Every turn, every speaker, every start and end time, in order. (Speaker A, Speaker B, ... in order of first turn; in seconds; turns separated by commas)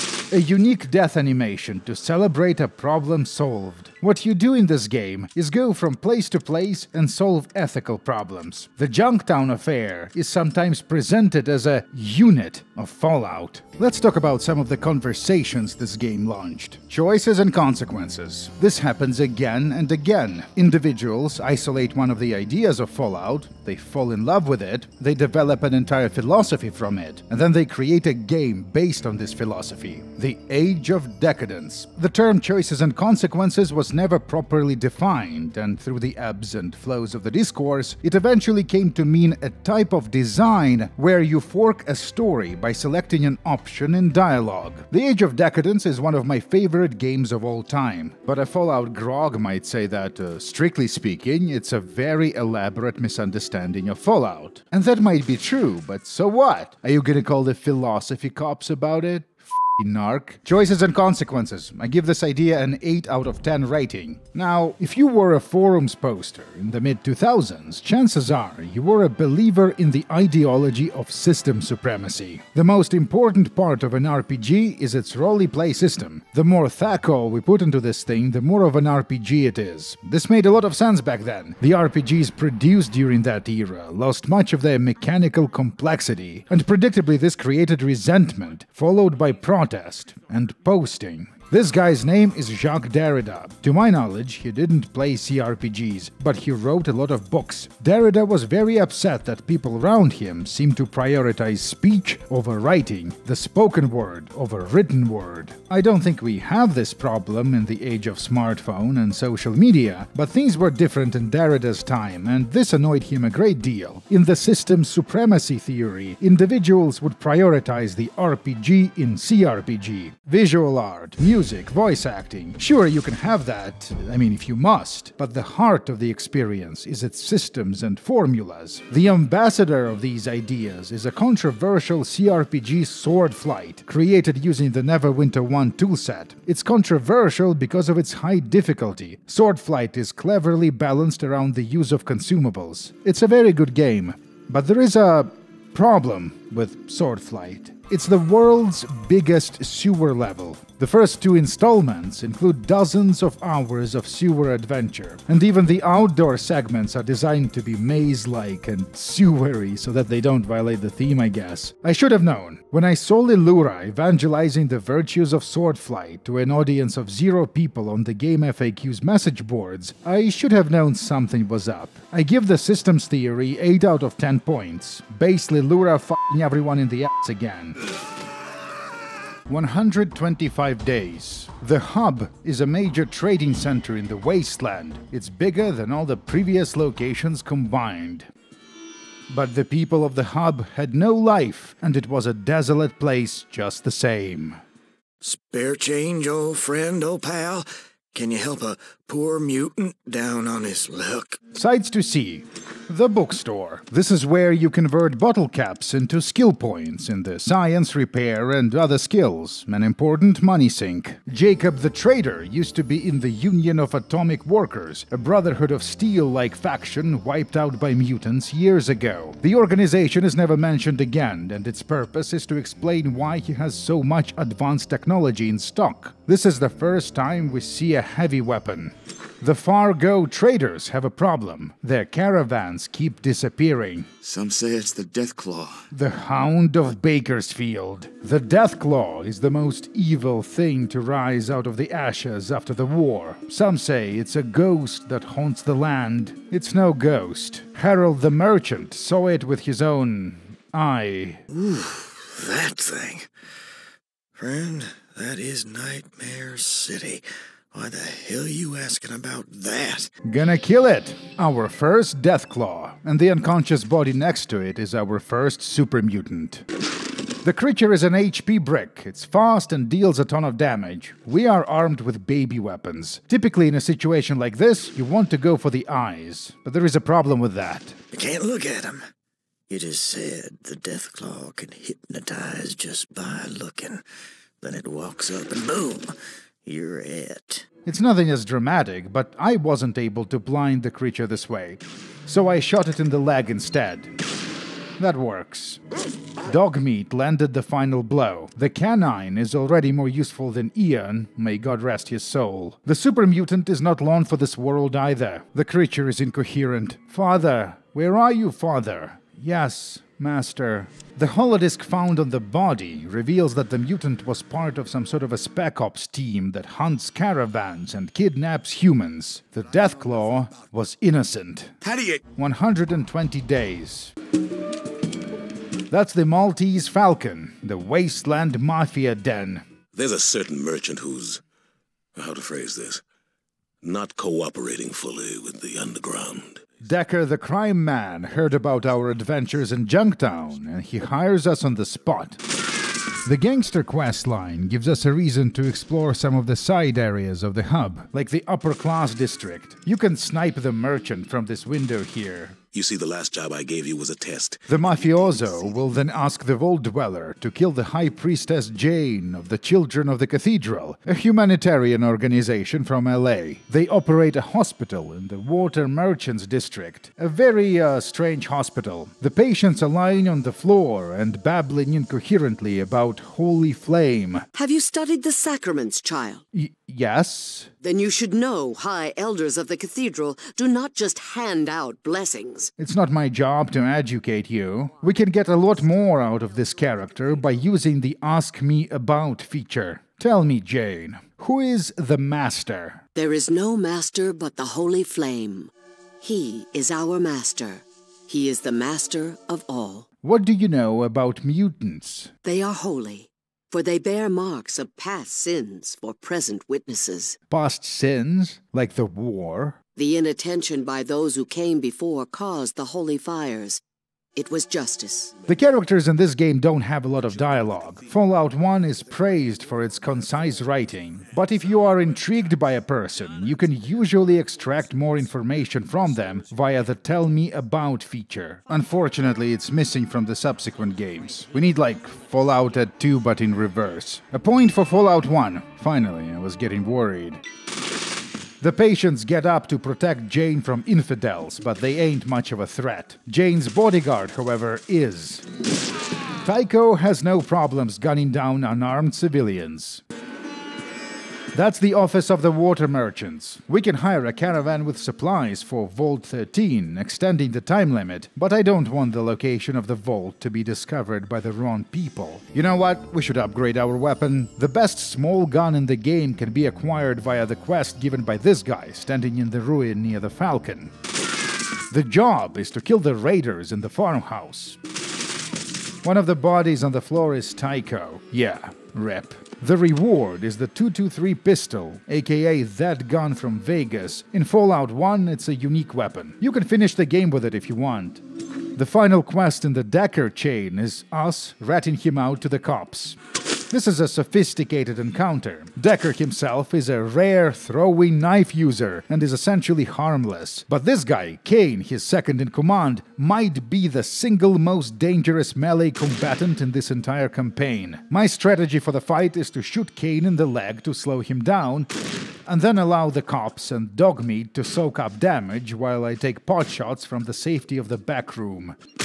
Speaker A: 0.3-177.8, Speaker A: 179.5-188.3, Speaker A: 189.3-194.6, Speaker B: 195.2-201.4, Speaker A: 201.5-234.1, Speaker B: 234.2-235.8, Speaker A: 235.9-251.4, Speaker B: 251.5-253.3, Speaker B: 254.4-260.1, Speaker A: 260.2-266.6, Speaker A: 267.4-278.0, Speaker B: 278.1-279.1, Speaker B: 279.7-284.0, Speaker B: 284.6-286.1, Speaker B: 286.7-287.6, Speaker A: 287.9-294.1, Speaker A: 295.0-295.8, Speaker A: 296.4-321.8, Speaker A: 322.4-324.1, Speaker A: 325.9-329.6, Speaker C: 329.9-331.4, Speaker C: 332.2-333.0, Speaker C: 333.8-336.6, Speaker A: 336.8-342.4, Speaker A: 343.2-352.6, Speaker C: 352.7-354.6, Speaker A: 354.7-374.5, Speaker D: 374.6-376.4, Speaker A: 376.5-377.7, Speaker D: 377.8-382.7, Speaker A: 382.8-393.0, Speaker D: 393.1-400.1, Speaker A: 400.2-402.3, Speaker D: 402.4-407.4, Speaker A: 407.5-409.8, Speaker D: 410.0-413.8, Speaker D: 414.4-415.4, Speaker A: 415.5-437.4, Speaker A: 438.6-445.4, Speaker A: 446.4-450.0, Speaker A: 451.5-470.9, Speaker A: 471.9-474.8, Speaker A: 476.0-488.2, Speaker A: 488.8-493.2, Speaker A: 493.7-511.9, Speaker A: 512.5-518.8